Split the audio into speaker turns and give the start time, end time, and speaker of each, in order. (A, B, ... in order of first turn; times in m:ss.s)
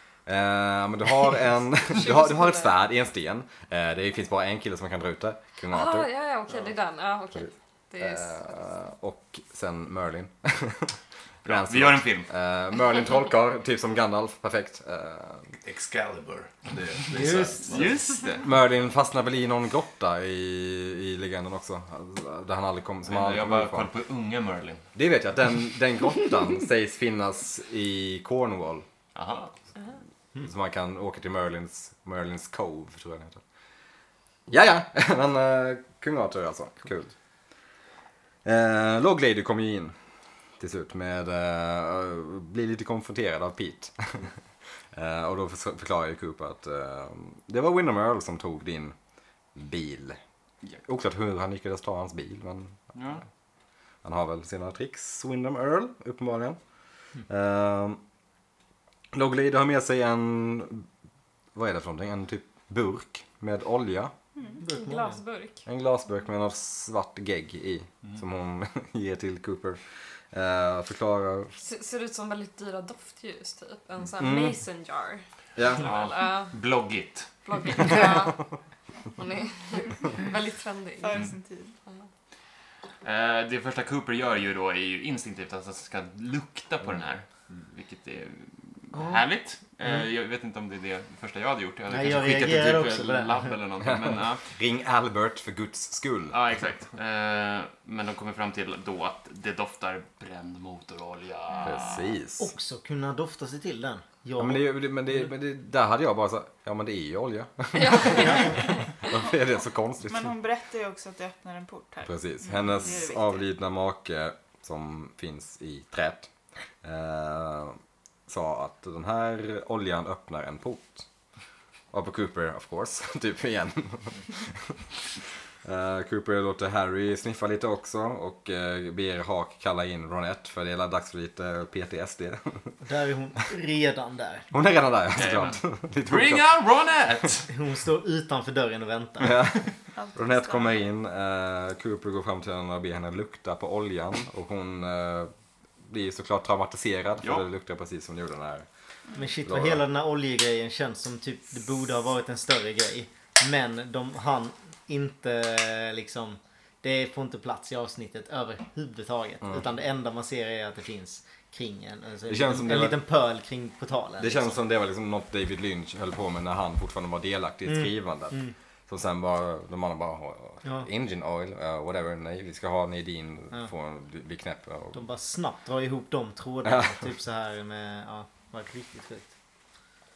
0:00.3-0:06.1 A
0:01.9-0:02.7 B
0:05.7-0:08.6 B
0:07.4-0:15.6 A
0:11.4-0:12.3 C
0:15.6-0:18.0 D
0:17.1-0:17.8 E
0:17.7-0:18.4 C
0:18.4-0:23.9 A
0:23.1-0:24.8 C
0:25.0-0:28.9 A
0:29.1-0:29.5 C
0:30.4-0:33.4 A
0:34.5-0:37.1 A
0:38.4-0:40.0 A
0:40.6-0:44.3 A
0:44.9-0:49.0 A
0:49.6-0:50.2 A
0:50.8-0:52.8 A
0:52.9-0:53.2 C
0:54.0-0:56.6 A
0:57.3-0:58.0 A
0:59.1-1:00.9 A
1:01.6-1:04.1 A
1:04.4-1:04.6 F
1:04.6-1:05.2 E
1:04.6-1:05.6 B
1:05.6-1:09.8 A
1:10.3-1:11.5 A
1:11.6-1:15.2 B
1:14.2-1:14.6 A
1:15.6-1:15.9 A
1:15.8-1:16.5 B
1:15.8-1:18.0 C
1:17.4-1:18.5 B
1:19.1-1:21.3 B
1:21.0-1:21.8 F
1:23.0-1:34.5 C
1:28.9-1:29.2 E
1:31.9-1:33.6 E
1:33.8-1:36.4 A
1:36.3-1:42.1 C
1:41.6-1:42.5 A
1:42.4-1:44.7 E
1:44.4-1:50.3 A
1:47.7-1:49.1 B
1:50.0-1:53.5 F
1:52.0-1:56.3 A
1:56.8-2:01.1 A
2:01.9-2:04.8 A
2:05.6-2:12.6 A
2:12.8-2:14.5 E
2:14.5-2:16.5 A
2:15.1-2:17.5 C
2:17.5-2:19.4 E
2:19.2-2:25.3 A
2:20.0-2:20.8 F
2:25.8-2:28.6 A
2:29.2-2:44.6 E
2:29.5-2:29.8 A
2:42.3-2:43.0 A
2:44.2-2:55.0 A
2:47.7-2:48.5 E
2:54.9-2:59.3 E
2:56.6-2:57.0 A